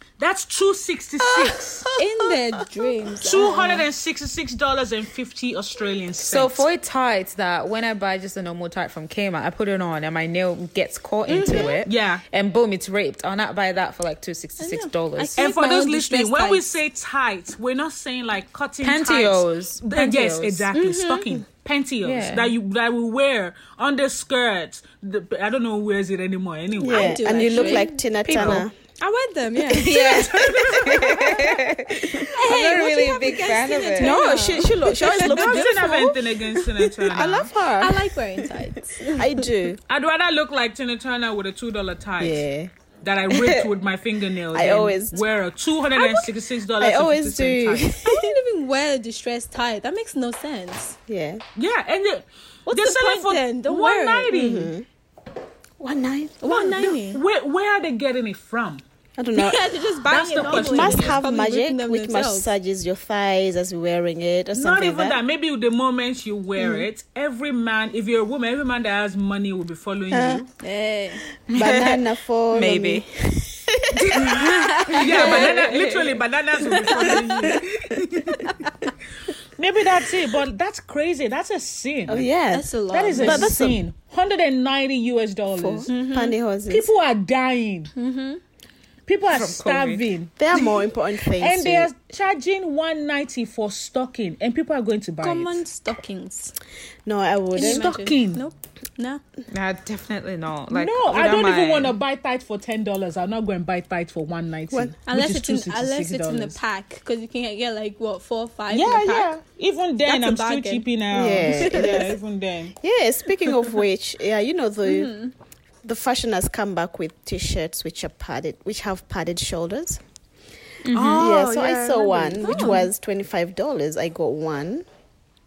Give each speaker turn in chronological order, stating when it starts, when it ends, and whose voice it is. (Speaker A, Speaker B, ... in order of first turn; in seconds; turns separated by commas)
Speaker A: 0.2-1.9, Speaker B: 1.2-2.9, Speaker C: 2.0-3.9, Speaker A: 3.2-6.7, Speaker D: 6.2-15.4, Speaker C: 11.3-11.8, Speaker B: 11.4-11.7, Speaker A: 11.8-12.2, Speaker C: 14.6-16.7, Speaker A: 15.4-27.7, Speaker D: 18.8-20.7, Speaker C: 20.7-21.4, Speaker D: 22.0-22.5, Speaker B: 26.8-28.7, Speaker C: 26.8-28.0, Speaker D: 28.2-28.6, Speaker C: 29.0-31.4, Speaker D: 29.7-34.2, Speaker B: 30.0-31.4, Speaker A: 30.1-31.3, Speaker B: 32.0-32.2, Speaker C: 32.2-35.9, Speaker B: 34.0-39.8, Speaker A: 35.0-37.5, Speaker C: 37.8-39.2, Speaker A: 39.9-42.4, Speaker B: 42.2-42.7, Speaker A: 43.0-47.9, Speaker B: 43.3-43.7, Speaker B: 44.5-45.2, Speaker B: 46.0-48.4, Speaker C: 48.0-51.0, Speaker B: 51.1-51.4, Speaker A: 51.5-54.7, Speaker C: 52.6-54.3, Speaker B: 54.3-54.9, Speaker B: 55.8-56.7, Speaker C: 56.4-57.2, Speaker A: 56.5-58.8, Speaker B: 59.2-59.6, Speaker C: 59.3-62.5, Speaker A: 60.1-61.2, Speaker B: 60.4-65.2, Speaker A: 64.5-70.5, Speaker B: 66.6-66.9, Speaker B: 70.1-70.4, Speaker C: 70.6-71.2, Speaker B: 71.5-74.8, Speaker D: 71.5-73.0, Speaker A: 73.9-78.5, Speaker C: 74.2-75.5, Speaker D: 74.9-76.2, Speaker C: 76.9-77.5, Speaker C: 78.2-78.8, Speaker A: 79.5-82.3, Speaker B: 82.1-83.8, Speaker C: 82.5-83.5, Speaker A: 82.9-85.9, Speaker B: 85.5-86.9, Speaker C: 85.9-86.3, Speaker A: 86.7-87.9, Speaker C: 88.0-88.4, Speaker A: 89.1-90.7, Speaker D: 89.3-90.0, Speaker B: 90.4-91.9, Speaker A: 91.4-95.6, Speaker C: 95.2-96.5, Speaker B: 97.0-97.9, Speaker C: 97.5-99.2, Speaker A: 97.6-98.4, Speaker D: 99.5-102.0, Speaker A: 100.7-106.6, Speaker C: 105.0-109.3, Speaker A: 108.7-112.7, Speaker C: 110.0-112.1, Speaker B: 111.1-112.1, Speaker B: 112.8-115.1, Speaker C: 114.8-115.3, Speaker B: 115.8-120.0, Speaker D: 120.9-121.3, Speaker C: 120.9-122.9, Speaker B: 121.2-124.8, Speaker D: 122.4-122.8